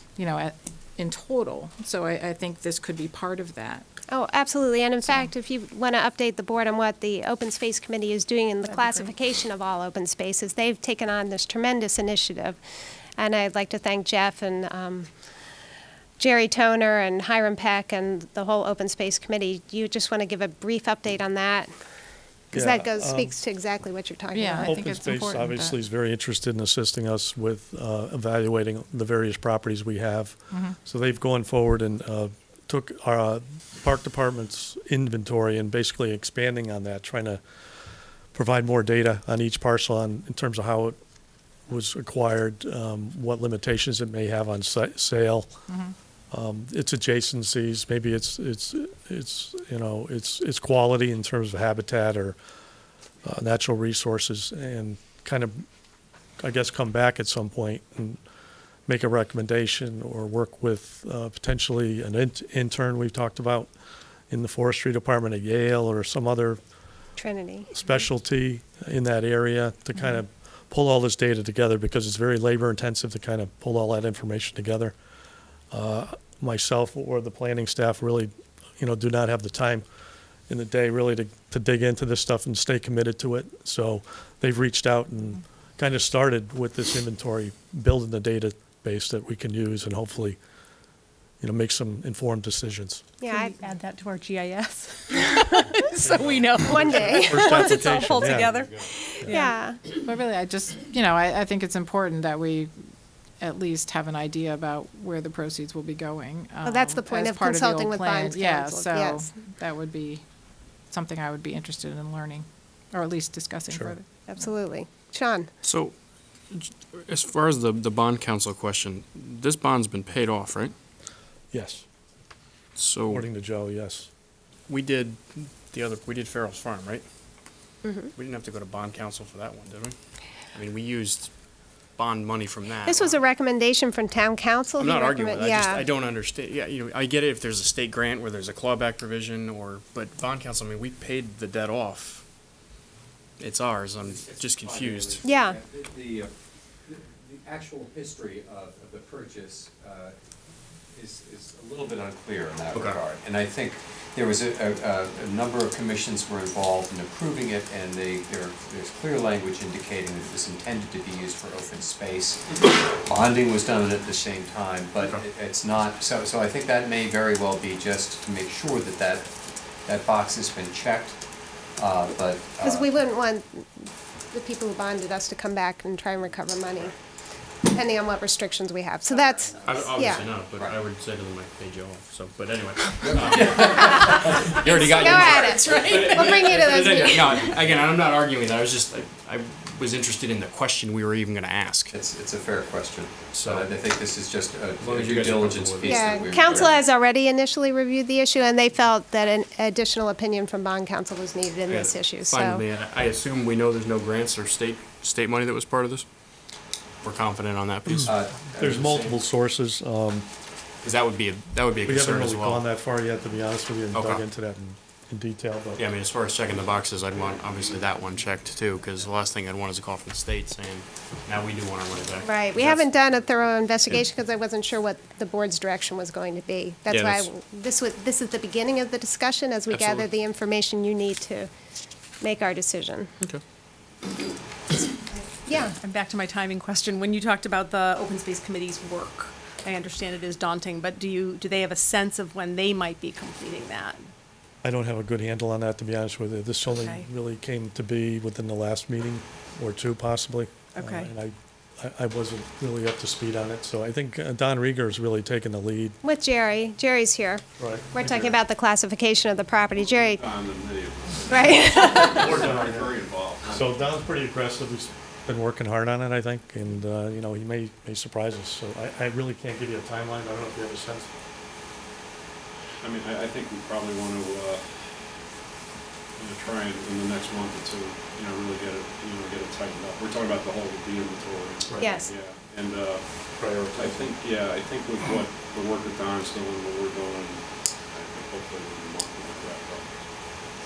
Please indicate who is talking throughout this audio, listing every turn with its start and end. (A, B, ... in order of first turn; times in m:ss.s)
0:00.2-0:03.9 A
0:04.1-0:12.6 B
0:13.2-0:15.1 B
0:16.2-0:21.7 B
0:22.5-0:24.8 B
0:22.5-0:23.4 C
0:24.3-0:25.8 A
0:24.6-0:37.4 C
0:30.5-0:30.8 A
0:38.3-0:41.0 C
0:41.7-0:45.5 C
0:45.7-0:46.0 A
0:46.3-0:52.4 C
0:53.2-0:55.6 C
0:56.4-0:58.2 C
0:58.9-1:03.7 C
1:04.3-1:06.6 C
1:07.2-1:07.7 B
1:07.7-1:15.0 C
1:15.7-1:19.8 C
1:20.5-1:30.4 C
1:31.4-1:33.0 C
1:33.2-1:33.6 B
1:33.3-1:39.4 D
1:36.0-1:38.7 C
1:36.6-1:37.4 B
1:38.9-1:39.8 B
1:39.3-1:42.7 A
1:43.4-1:50.2 A
1:46.6-1:49.3 B
1:50.9-1:54.1 A
1:53.7-1:53.9 C
1:54.3-1:55.5 B
1:55.6-1:55.9 E
1:56.5-2:00.7 E
2:01.5-2:01.8 C
2:02.8-2:03.3 E
2:03.1-2:04.1 C
2:04.7-2:07.0 E
2:07.8-2:08.1 B
2:08.2-2:10.0 E
2:10.5-2:11.3 E
2:12.0-2:13.2 E
2:12.8-2:15.9 B
2:14.8-2:22.2 E
2:23.4-2:25.3 E
2:24.0-2:26.3 F
2:25.2-2:25.6 B
2:26.8-2:30.2 F
2:30.9-2:42.4 F
2:32.7-2:33.0 E
2:43.0-2:49.3 F
2:49.9-2:51.2 F
2:51.8-2:52.9 F
2:52.6-2:57.0 B
2:57.7-3:00.3 B
2:59.6-3:11.9 E
3:00.5-3:00.8 F
3:03.0-3:05.9 F
3:03.7-3:04.1 B
3:04.6-3:07.3 B
3:05.2-3:06.2 D
3:11.9-3:16.8 F
3:13.3-3:13.7 E
3:14.8-3:16.7 E
3:15.8-3:22.6 B
3:21.7-3:26.1 E
3:27.0-3:28.2 E
3:28.0-3:29.2 F
3:28.6-3:30.3 C
3:30.8-3:32.6 E
3:31.8-3:35.8 C
3:33.9-3:34.2 E
3:35.8-3:42.9 E
3:42.2-3:51.5 B
3:46.9-3:47.3 E
3:49.7-3:50.1 E
3:52.2-3:53.1 B
3:55.1-4:04.0 D
3:55.5-3:55.7 B
4:04.6-4:16.0 C
4:06.6-4:07.1 D
4:10.8-4:11.1 D
4:16.0-4:20.2 B
4:17.6-4:18.4 C
4:20.2-4:23.5 G
4:21.3-4:22.4 B
4:22.2-4:31.1 C
4:32.8-4:34.7 G
4:36.2-4:43.0 G
4:41.8-4:42.1 B
4:43.4-4:44.1 C
4:43.8-4:50.0 G